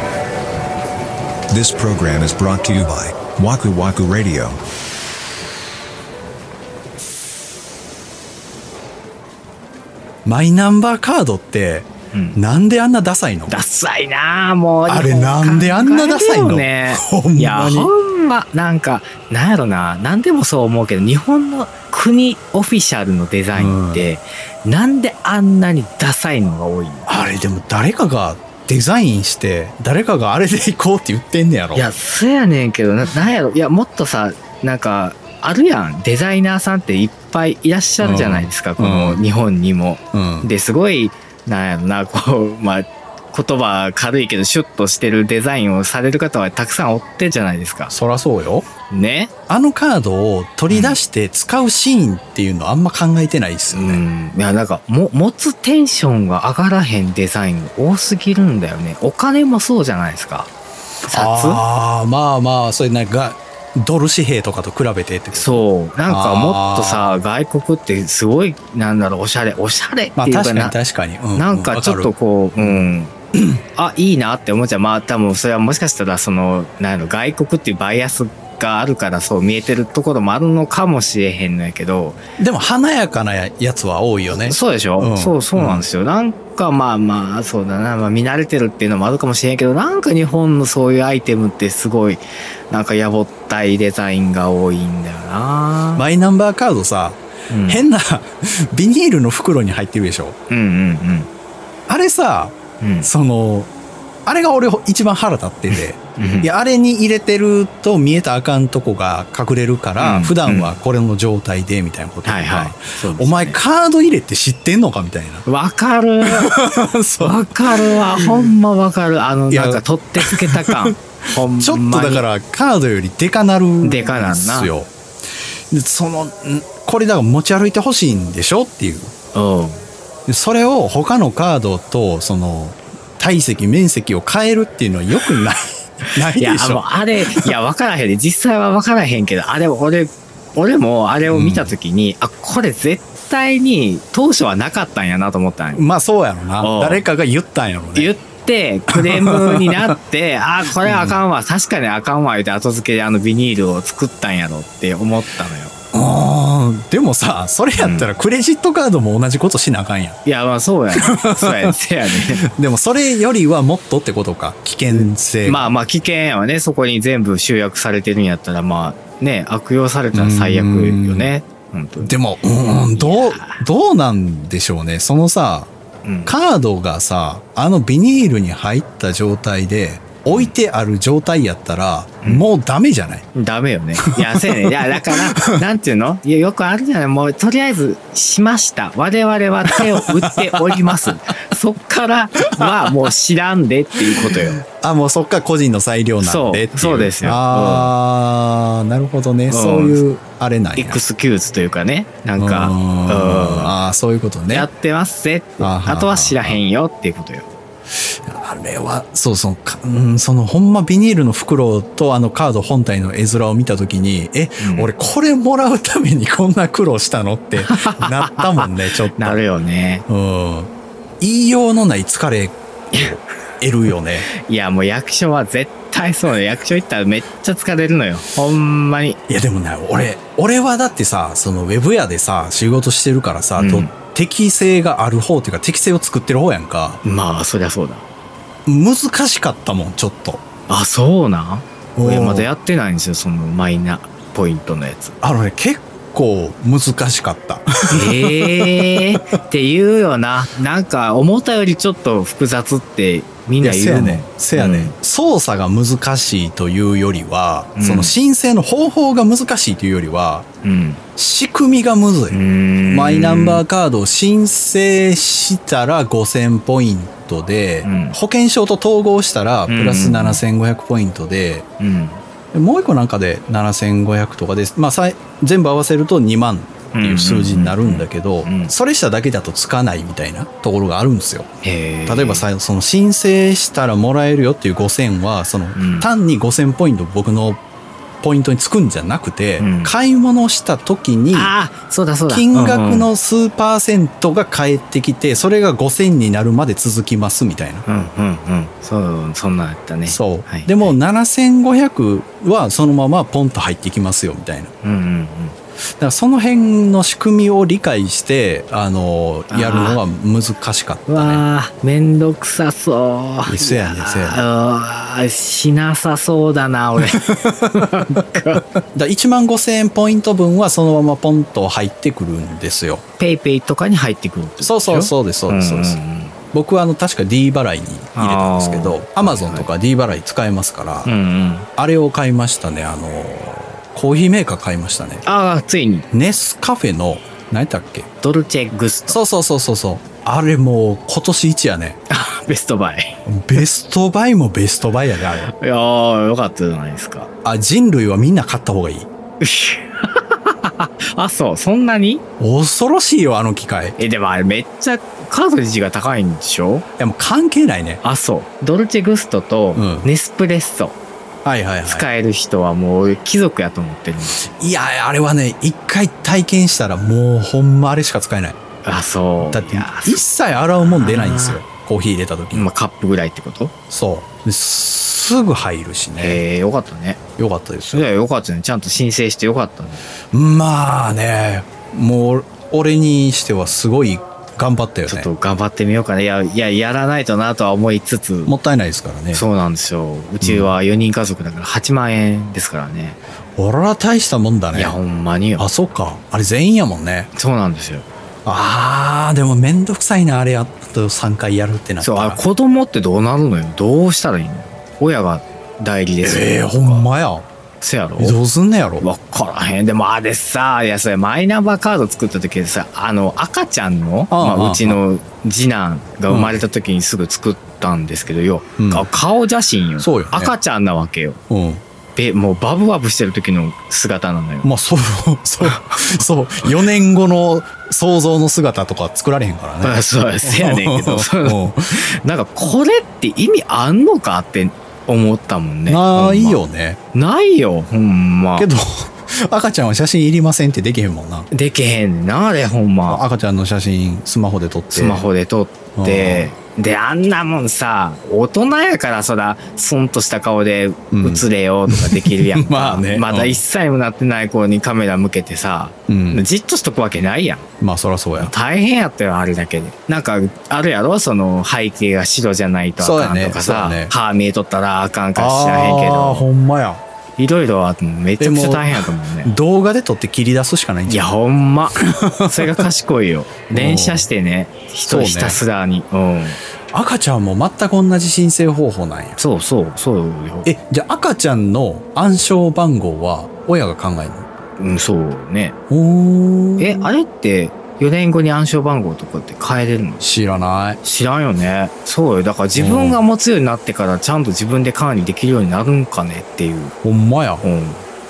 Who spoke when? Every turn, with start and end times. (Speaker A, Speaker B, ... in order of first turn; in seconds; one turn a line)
Speaker A: 1.5-4.6
Speaker B: 10.2-13.6
Speaker C: 12.1-12.4
Speaker C: 13.5-27.1
Speaker B: 14.9-17.9
Speaker B: 23.5-24.1
Speaker B: 27.1-31.9
Speaker C: 31.7-47.9
Speaker B: 38.0-39.2
Speaker B: 40.1-40.5
Speaker B: 47.9-48.7
Speaker C: 48.9-49.3
Speaker B: 49.5-54.0
Speaker C: 50.7-51.0
Speaker C: 53.7-60.5
Speaker C: 61.0-61.6
Speaker B: 61.1-67.2
Speaker C: 65.3-70.8
Speaker B: 70.2-72.8
Speaker C: 71.3-73.1
Speaker B: 73.3-73.6
Speaker C: 73.7-82.2
Speaker B: 82.4-85.9
Speaker C: 84.3-96.0
Speaker B: 95.9-100.3
Speaker C: 97.5-97.8
Speaker C: 100.5-101.3
Speaker B: 101.9-103.7
Speaker C: 102.8-103.1
Speaker B: 104.2-115.4
Speaker C: 106.2-106.5
Speaker C: 110.0-110.8
Speaker C: 112.2-113.6
Speaker C: 115.4-116.6
Speaker B: 116.2-118.5
Speaker C: 117.2-122.3
Speaker B: 119.5-124.9
Speaker C: 123.8-124.7
Speaker B: 125.7-129.1
Speaker C: 129.3-129.8
Speaker B: 130.3-137.5
Speaker C: 136.3-145.8
Speaker B: 141.3-141.7
Speaker B: 145.7-148.1
Speaker C: 146.6-147.0
Speaker C: 147.9-155.7
Speaker B: 148.9-150.0
Speaker B: 150.8-151.2
Speaker B: 155.9-160.2
Speaker C: 157.8-158.2
Speaker C: 160.2-162.4
Speaker B: 160.9-165.8
Speaker C: 164.9-172.2
Speaker B: 170.1-171.3
Speaker B: 172.0-175.7
Speaker C: 172.7-173.6
Speaker C: 176.0-176.3
Speaker B: 176.2-183.3
Speaker C: 180.3-180.5
Speaker C: 182.2-182.5
Speaker C: 183.3-194.6
Speaker B: 184.0-185.6
Speaker B: 189.7-191.2
Speaker B: 192.5-193.1
Speaker B: 194.1-201.0
Speaker C: 196.2-197.9
Speaker C: 199.5-200.0
Speaker C: 200.8-203.7
Speaker B: 202.4-204.7
Speaker C: 204.5-207.5
Speaker B: 205.6-206.6
Speaker B: 207.9-219.4
Speaker C: 214.6-214.9
Speaker C: 217.6-220.0
Speaker B: 220.1-224.3
Speaker C: 224.3-229.2
Speaker B: 229.3-237.0
Speaker C: 233.6-233.9
Speaker C: 237.0-238.0
Speaker B: 238.7-240.4
Speaker C: 240.7-245.2
Speaker B: 241.9-242.5
Speaker B: 245.2-249.1
Speaker C: 247.9-254.9
Speaker B: 253.6-260.5
Speaker C: 257.8-258.1
Speaker C: 260.6-261.0
Speaker B: 261.1-271.7
Speaker C: 262.3-263.6
Speaker C: 267.8-268.2
Speaker C: 269.7-270.4
Speaker C: 271.8-272.2
Speaker B: 272.5-281.5
Speaker C: 276.9-278.7
Speaker C: 281.6-282.4
Speaker B: 282.1-287.6
Speaker C: 285.7-286.1
Speaker B: 288.2-291.5
Speaker C: 289.6-289.9
Speaker C: 291.3-293.1
Speaker B: 292.3-297.8
Speaker C: 297.9-300.9
Speaker B: 300.1-304.7
Speaker C: 304.8-305.6
Speaker B: 306.0-311.4
Speaker C: 309.5-310.0
Speaker C: 311.1-318.6
Speaker B: 313.4-314.4
Speaker B: 317.0-323.0
Speaker C: 323.2-326.3
Speaker B: 324.6-326.0
Speaker B: 326.5-331.1
Speaker C: 328.1-329.7
Speaker C: 331.0-331.7
Speaker B: 331.8-335.2
Speaker C: 335.2-336.1
Speaker B: 336.1-338.1
Speaker C: 338.2-339.2
Speaker B: 339.1-342.0
Speaker C: 342.1-343.2
Speaker B: 343.2-345.5
Speaker C: 345.4-347.3
Speaker B: 347.4-349.1
Speaker C: 349.4-352.2
Speaker B: 352.4-354.0
Speaker C: 354.0-356.9
Speaker B: 357.0-358.0
Speaker C: 358.0-361.0
Speaker B: 359.7-360.1
Speaker B: 361.4-362.1
Speaker C: 361.8-364.4
Speaker B: 364.4-368.6
Speaker C: 368.8-370.2
Speaker B: 369.4-372.7
Speaker C: 370.8-371.6
Speaker C: 372.5-373.7
Speaker B: 373.9-376.4
Speaker C: 376.2-377.2
Speaker B: 377.4-378.1
Speaker C: 377.9-380.0
Speaker B: 380.3-385.3
Speaker C: 385.1-388.5
Speaker B: 388.4-389.4
Speaker C: 389.3-393.2
Speaker B: 390.4-390.7
Speaker B: 393.6-395.0
Speaker C: 394.7-395.7
Speaker B: 395.6-397.3
Speaker C: 397.3-398.1
Speaker B: 398.4-402.4
Speaker C: 402.0-407.1
Speaker B: 406.2-407.5
Speaker C: 407.8-408.4
Speaker B: 408.2-409.1
Speaker C: 409.0-421.4
Speaker B: 414.3-415.0
Speaker B: 416.3-416.6
Speaker B: 418.8-419.1
Speaker B: 420.0-420.5
Speaker B: 421.5-421.8
Speaker C: 422.1-424.7
Speaker B: 424.6-432.1
Speaker C: 429.8-438.7
Speaker B: 435.9-437.0
Speaker B: 438.6-441.5
Speaker C: 441.5-443.2
Speaker B: 443.1-445.2
Speaker C: 444.9-457.6
Speaker B: 445.9-446.5
Speaker B: 451.1-453.6
Speaker B: 456.1-456.4
Speaker B: 457.8-458.5
Speaker C: 458.4-466.5
Speaker B: 463.0-464.1
Speaker B: 465.3-467.0
Speaker C: 467.4-469.5
Speaker B: 468.4-471.4
Speaker C: 471.1-476.6
Speaker B: 472.0-472.9
Speaker B: 473.7-474.3
Speaker B: 475.0-475.6
Speaker B: 476.9-479.4
Speaker C: 479.4-480.7
Speaker B: 480.6-484.5
Speaker C: 484.8-485.8
Speaker B: 485.9-487.1
Speaker C: 486.8-490.2
Speaker B: 490.2-491.0
Speaker C: 491.0-496.9
Speaker B: 492.7-493.2
Speaker B: 497.0-497.6
Speaker C: 497.6-498.0